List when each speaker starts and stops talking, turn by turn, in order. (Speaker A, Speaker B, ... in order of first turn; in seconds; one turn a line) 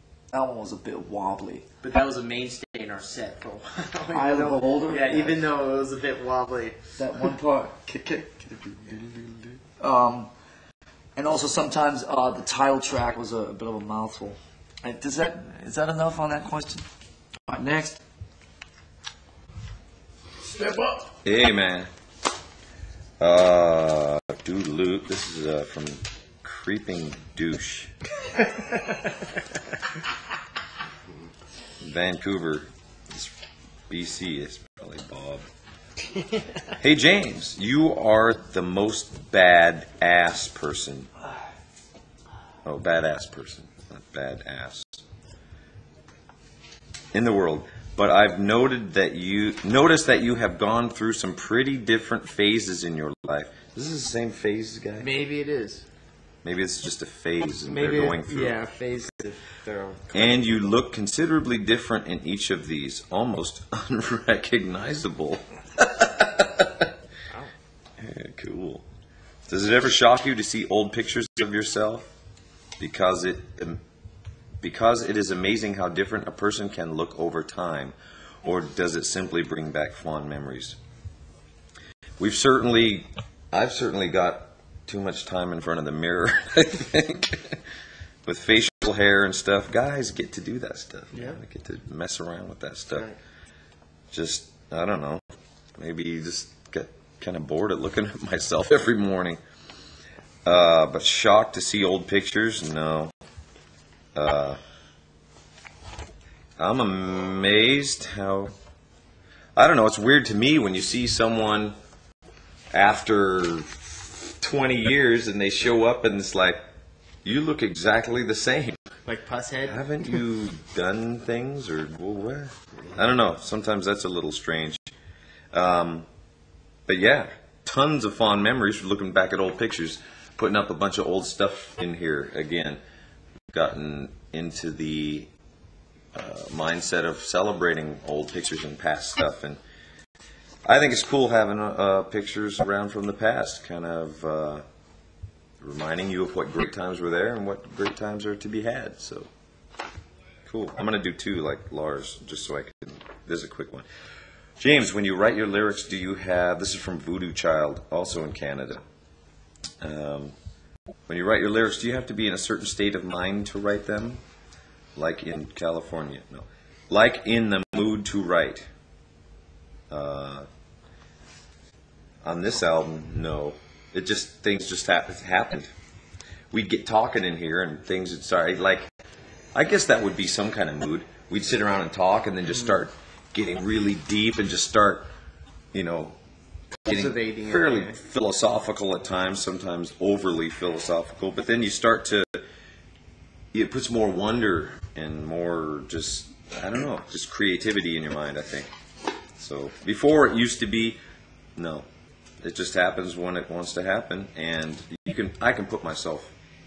Speaker A: 0.3-1.7
Speaker B: 1.8-6.8
Speaker A: 4.1-5.4
Speaker A: 7.0-10.3
Speaker A: 11.2-16.9
Speaker A: 17.5-18.0
Speaker B: 20.6-20.9
Speaker C: 21.2-21.9
Speaker C: 23.2-27.9
Speaker C: 31.8-33.3
Speaker C: 33.9-35.5
Speaker C: 36.8-41.1
Speaker C: 42.6-45.0
Speaker C: 47.1-55.1
Speaker B: 55.0-55.9
Speaker C: 56.4-58.6
Speaker B: 57.7-60.4
Speaker C: 60.1-66.9
Speaker C: 68.0-68.8
Speaker C: 69.5-72.1
Speaker C: 72.8-73.8
Speaker C: 74.6-80.8
Speaker C: 82.2-87.6
Speaker C: 88.2-93.1
Speaker B: 91.1-91.4
Speaker C: 94.1-95.2
Speaker C: 95.8-99.4
Speaker C: 100.5-103.1
Speaker C: 104.2-104.6
Speaker C: 106.6-108.5
Speaker C: 109.6-111.8
Speaker C: 112.7-116.6
Speaker C: 117.2-118.9
Speaker B: 119.1-120.2
Speaker C: 119.7-124.9
Speaker C: 125.5-126.1
Speaker C: 126.9-132.8
Speaker C: 133.5-135.3
Speaker C: 136.1-139.6
Speaker C: 140.7-144.6
Speaker C: 145.6-149.3
Speaker C: 150.4-153.9
Speaker C: 154.6-158.8
Speaker C: 159.8-160.3
Speaker C: 161.1-164.2
Speaker C: 165.0-168.7
Speaker C: 169.9-170.5
Speaker C: 172.2-175.7
Speaker C: 176.5-178.9
Speaker C: 179.6-185.1
Speaker C: 185.7-186.2
Speaker B: 186.8-188.0
Speaker C: 186.9-192.5
Speaker C: 193.5-198.7
Speaker C: 199.4-201.0
Speaker C: 201.6-201.9
Speaker C: 202.4-206.3